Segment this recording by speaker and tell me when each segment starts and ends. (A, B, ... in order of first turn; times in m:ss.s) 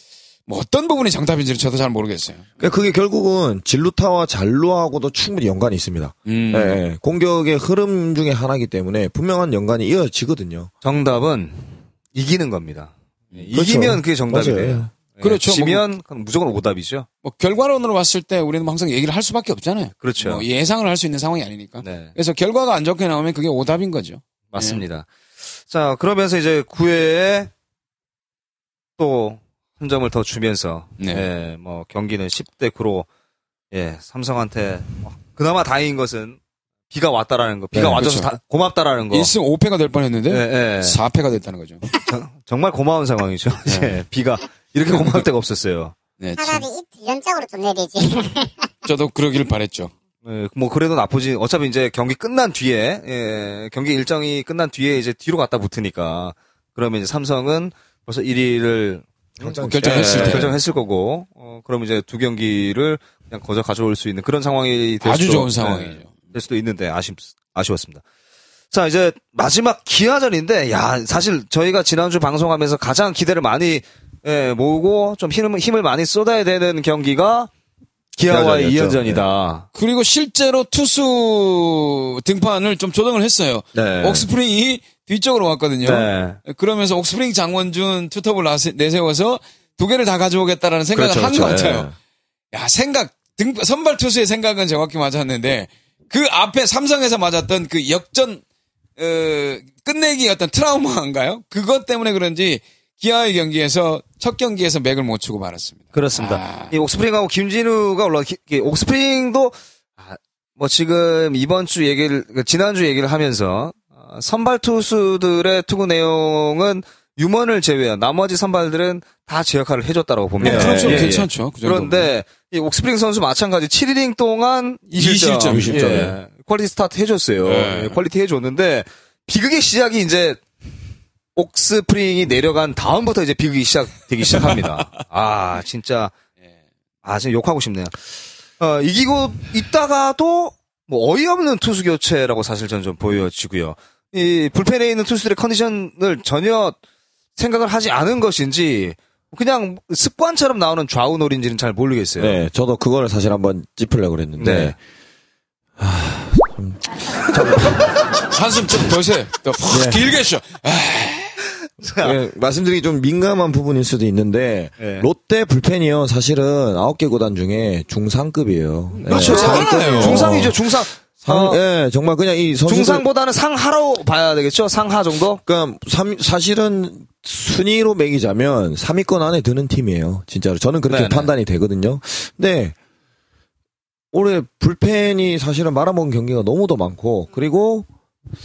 0:00.4-0:02.5 A
0:02.6-0:10.7 B
0:06.2-0:06.8 A
0:10.8-0:17.1 C
0:13.5-0:14.9 B
0:15.2-0:15.8 A
0:17.2-0:24.8 A
0:20.0-0:20.4 C
0:21.8-0:22.1 C
0:24.5-0:25.1 C
0:25.7-0:27.5 C
0:29.0-0:33.1 C
0:31.0-0:31.2 A
0:33.7-0:36.4 C
0:36.9-0:39.3 C
0:37.7-0:38.0 B
0:38.0-0:38.3 A
0:39.1-0:41.8 A
0:40.3-0:41.0 C
0:42.0-0:45.9 C
0:43.6-0:43.9 A
0:44.9-0:45.2 A
0:46.2-0:46.6 A
0:46.4-0:48.7 D
0:48.8-0:49.9 A
0:50.2-1:08.0 C
0:59.4-1:00.6 B
0:59.6-1:00.5 A
1:05.0-1:06.1 A
1:08.7-1:17.5 C
1:18.2-1:19.6 C
1:18.3-1:19.2 B
1:19.7-1:31.9 A
1:23.7-1:24.3 B
1:25.8-1:26.4 C
1:30.9-1:31.9 B
1:32.5-1:38.4 A
1:39.0-1:46.7 A
1:45.9-2:10.4 C
2:00.4-2:01.1 B
2:00.4-2:02.1 A
2:04.9-2:06.0 A
2:05.5-2:06.2 B
2:07.4-2:08.0 A
2:11.3-2:16.1 C
2:14.4-2:14.8 A
2:17.0-2:18.0 C
2:18.6-2:26.8 C
2:27.4-2:32.4 C
2:32.2-2:34.8 B
2:34.4-2:34.8 C
2:35.8-2:37.9 B
2:38.3-2:41.4 A
2:39.7-2:40.1 B
2:41.8-2:42.2 C
2:42.0-2:53.0 B
2:44.8-2:45.1 C
2:48.9-2:50.4 A
2:49.0-2:51.6 C
2:52.7-2:55.4 C
2:55.4-3:02.7 B
3:00.9-3:01.3 C
3:04.1-3:07.9 B